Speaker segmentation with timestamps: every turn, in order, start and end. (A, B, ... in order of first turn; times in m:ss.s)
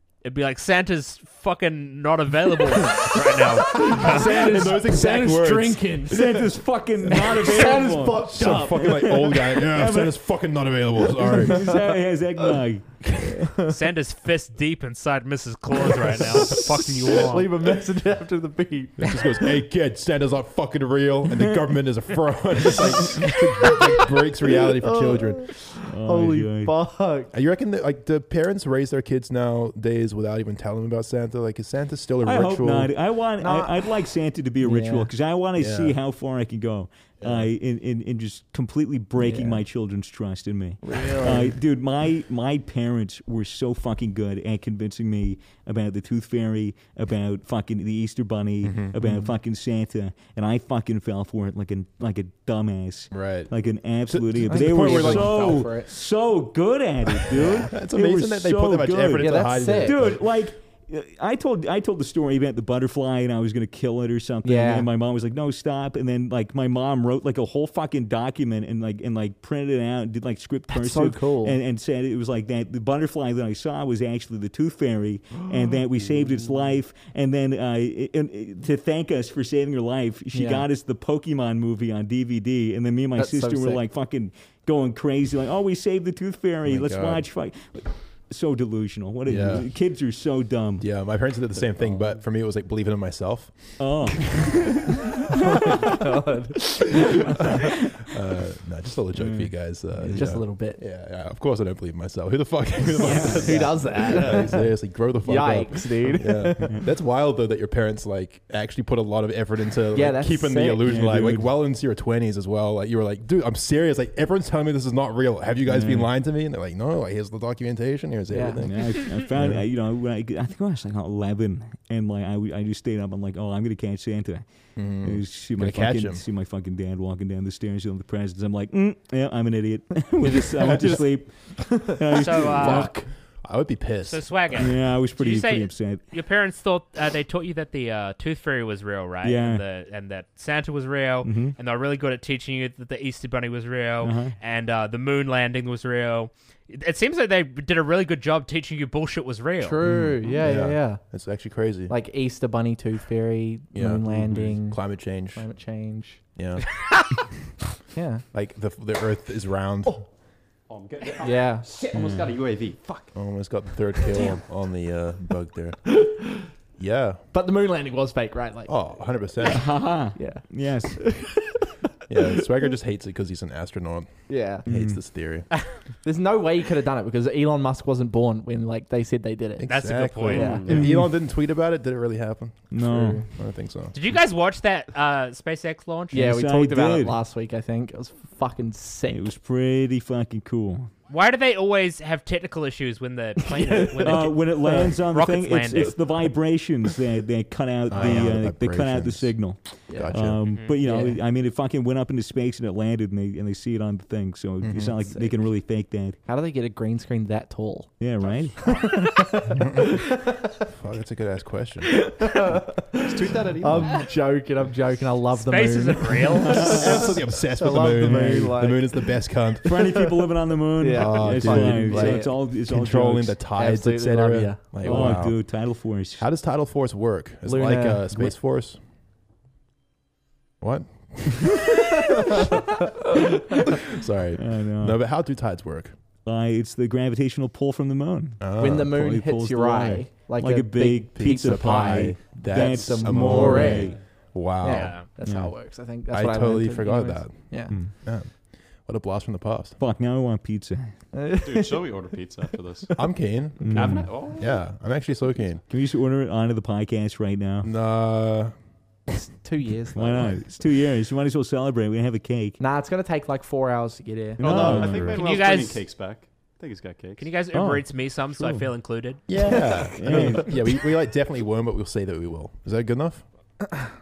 0:00.2-0:04.6 A
0:03.5-0:06.5 B
0:03.8-0:06.4 C
0:06.1-0:10.2 D
0:07.0-0:09.2 B
0:08.3-0:11.8 C
0:11.2-0:13.0 D
0:11.5-0:11.8 B
0:13.1-0:13.3 C
0:13.2-0:13.8 B
0:13.6-0:17.6 A
0:16.6-0:19.4 B
0:19.0-0:25.5 C
0:23.2-0:23.9 B
0:24.6-0:27.3 B
0:25.9-0:26.7 D
0:27.3-0:32.9 C
0:32.2-1:30.8 D
0:33.4-0:34.0 B
0:34.6-0:35.1 B
0:35.6-0:36.0 C
0:37.2-0:37.5 C
0:39.2-0:39.6 B
0:40.8-0:41.6 B
0:48.6-0:49.0 C
0:49.0-0:49.3 B
0:53.1-0:53.5 C
0:54.1-0:55.6 C
0:54.5-0:55.9 B
0:57.4-1:00.2 C
0:59.2-1:00.0 B
1:04.4-1:04.9 B
1:10.7-1:11.6 B
1:15.4-1:15.8 B
1:20.3-1:20.7 B
1:23.2-1:23.8 B
1:26.7-1:27.3 C
1:29.3-1:29.7 C
1:30.8-1:33.8 C
1:33.8-1:36.1 D
1:35.4-1:37.7 B
1:37.3-1:38.0 D
1:37.5-1:59.6 C
1:39.2-1:39.5 D
1:40.0-1:40.8 B
1:43.0-1:46.8 B
1:43.1-1:43.4 D
1:44.1-1:44.5 E
1:49.9-1:50.8 B
1:50.8-1:51.5 D
1:55.7-1:56.1 D
1:58.3-1:58.6 B
1:58.6-2:04.5 D
2:04.8-2:06.2 C
2:05.0-2:12.9 D
2:12.1-2:12.9 A
2:12.5-2:14.6 C
2:12.8-2:13.0 B
2:14.1-2:29.8 A
2:14.5-2:16.0 D
2:19.2-2:19.6 D
2:21.2-2:21.6 D
2:24.0-2:24.3 D
2:29.6-2:31.0 B
2:29.8-2:31.9 C
2:31.9-2:36.2 B
2:33.7-2:35.4 C
2:36.4-2:36.8 C
2:37.9-2:38.2 B
2:38.3-2:40.1 C
2:40.7-2:43.1 E
2:41.2-2:41.7 B
2:43.1-2:45.8 C
2:45.9-2:46.5 B
2:46.8-2:47.2 C
2:47.3-2:48.7 B
2:48.7-2:49.8 C
2:49.4-2:51.0 D
2:50.2-2:51.6 B
2:52.1-2:54.1 C
2:54.3-2:54.7 B
2:54.6-2:55.5 C
2:54.6-2:55.0 D
2:56.0-2:59.7 B
2:59.6-3:04.0 C
2:59.7-3:00.8 A
3:00.3-3:00.9 B
3:00.3-3:00.8 E
3:00.7-3:01.1 D
3:02.7-3:03.2 D
3:03.9-3:06.2 A
3:06.1-3:09.3 B
3:06.1-3:07.2 D
3:09.1-3:10.9 D
3:11.1-3:16.0 A
3:13.5-3:14.9 B
3:14.0-3:26.2 D
3:17.9-3:19.4 C
3:19.9-3:21.2 B
3:19.9-3:20.4 C
3:20.4-3:20.7 A
3:24.6-3:25.0 C
3:25.1-3:25.4 B
3:26.2-3:28.0 B
3:28.0-3:28.7 D
3:28.6-3:30.7 B
3:29.5-3:30.0 C
3:30.7-3:32.6 C
3:31.8-3:40.2 B
3:33.0-3:34.0 E
3:33.6-3:33.9 C
3:35.3-3:37.1 A
3:36.4-3:37.1 D
3:36.7-3:40.1 C
3:38.0-3:38.6 D
3:39.6-3:43.4 D
3:40.8-3:42.3 B
3:40.9-3:45.6 C
3:43.6-3:45.3 B
3:44.8-3:46.2 D
3:46.2-3:48.8 C
3:47.4-3:48.3 B
3:50.6-3:52.6 C
3:53.8-3:55.9 C
3:54.4-3:55.0 D
3:56.2-4:04.0 D
3:58.4-3:59.0 C
3:58.6-4:04.0 B
4:01.1-4:05.5 C
4:04.6-4:07.8 B
4:04.7-4:05.1 A
4:06.1-4:08.3 C
4:08.8-4:09.8 C
4:09.8-4:10.9 D
4:11.1-4:11.9 B
4:11.4-4:13.0 E
4:13.0-4:15.6 C
4:13.6-4:14.1 D
4:13.7-4:14.4 E
4:15.7-4:17.7 D
4:17.6-4:18.5 C
4:19.1-4:20.4 B
4:20.0-4:22.6 D
4:22.6-4:24.9 B
4:24.4-4:25.2 D
4:24.4-4:27.3 E
4:24.6-4:25.0 C
4:25.0-4:25.8 A
4:27.2-4:29.3 A
4:27.5-4:28.7 D
4:29.3-4:33.2 C
4:29.9-4:30.6 D